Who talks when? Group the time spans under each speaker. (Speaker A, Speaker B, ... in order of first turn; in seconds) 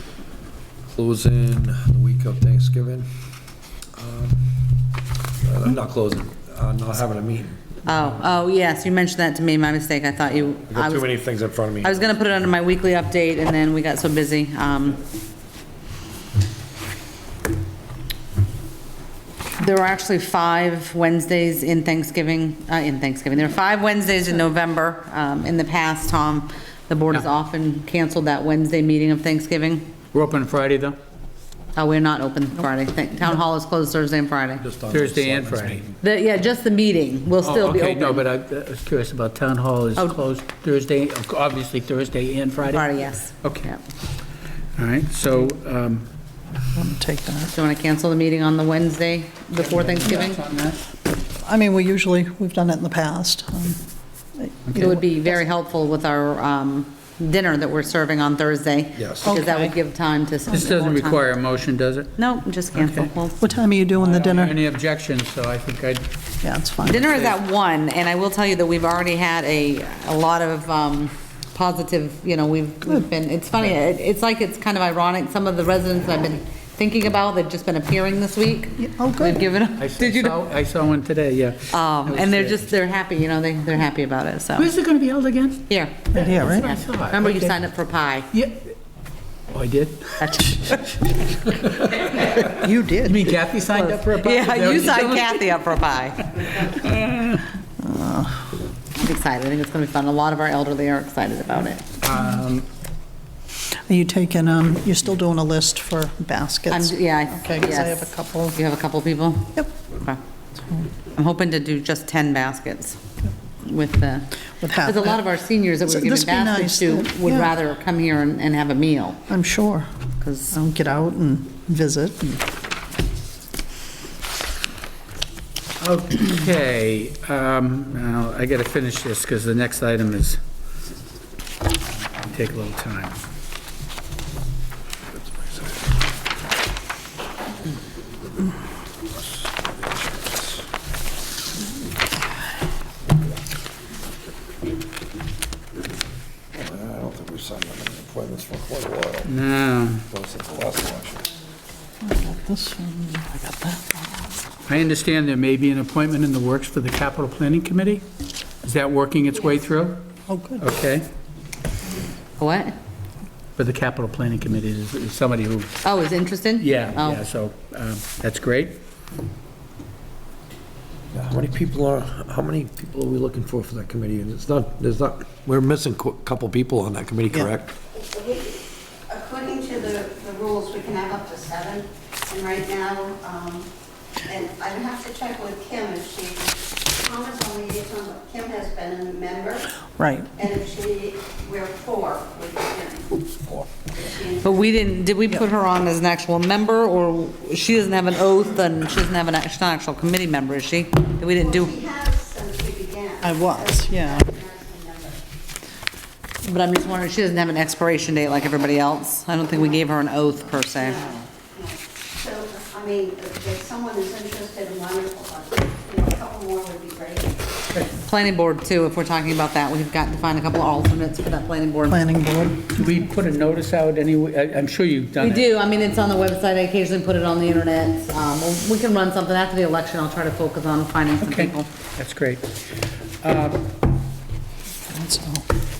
Speaker A: 0.9-3.1, 4.0-4.4, 5.4-7.8, 10.7-12.1, 34.6-36.0, 59.0-59.3, 135.2-135.9, 139.1-140.6, 146.5-149.3, 150.1-151.3, 171.1-177.7
Speaker B: 7.9-11.2, 11.8-15.0, 19.6-29.9, 31.8-34.6, 36.0-38.3, 42.7-43.8, 47.5-50.4, 54.8-61.2, 62.2-63.4, 66.9-80.4, 81.7-84.7, 85.7-88.3, 90.2-91.2, 93.7-96.6, 99.0-101.9, 106.7-110.2, 111.2-113.0, 113.6-119.2, 120.2-120.5, 162.4-162.8, 165.8-167.2, 194.4-201.8, 206.4-211.1, 217.9-222.1, 225.2-231.7
Speaker C: 30.1-31.0, 34.9-35.9, 37.4-43.7, 44.8-46.1, 49.6-50.8, 60.5-62.1, 62.7-63.1, 64.0-66.1, 67.0-67.4, 79.8-82.6, 84.6-87.6, 88.3-88.7, 89.5-90.8, 91.3-95.6, 96.4-97.5, 102.0-102.7, 125.8-130.4, 132.1-133.2, 149.3-150.1, 154.7-158.0, 158.6-160.1, 160.6-161.1, 163.6-165.8, 166.6-168.8, 222.7-225.5, 231.2-232.6, 233.2-233.7
Speaker D: 46.8-47.5, 51.4-53.8, 54.4-55.4, 59.2-59.8, 63.4-64.6, 66.4-67.0, 78.8-79.4, 86.2-86.7, 92.5-93.2, 97.8-98.6, 103.9-108.6, 114.6-115.2, 115.8-117.5, 119.3-119.9, 120.5-122.4, 152.0-154.4, 160.3-160.7, 190.0-190.4, 203.2-204.3, 221.9-222.7, 234.9-235.5
Speaker E: 178.0-183.7, 184.2-189.7, 190.4-193.2, 194.0-194.7, 201.4-205.2, 210.8-217.5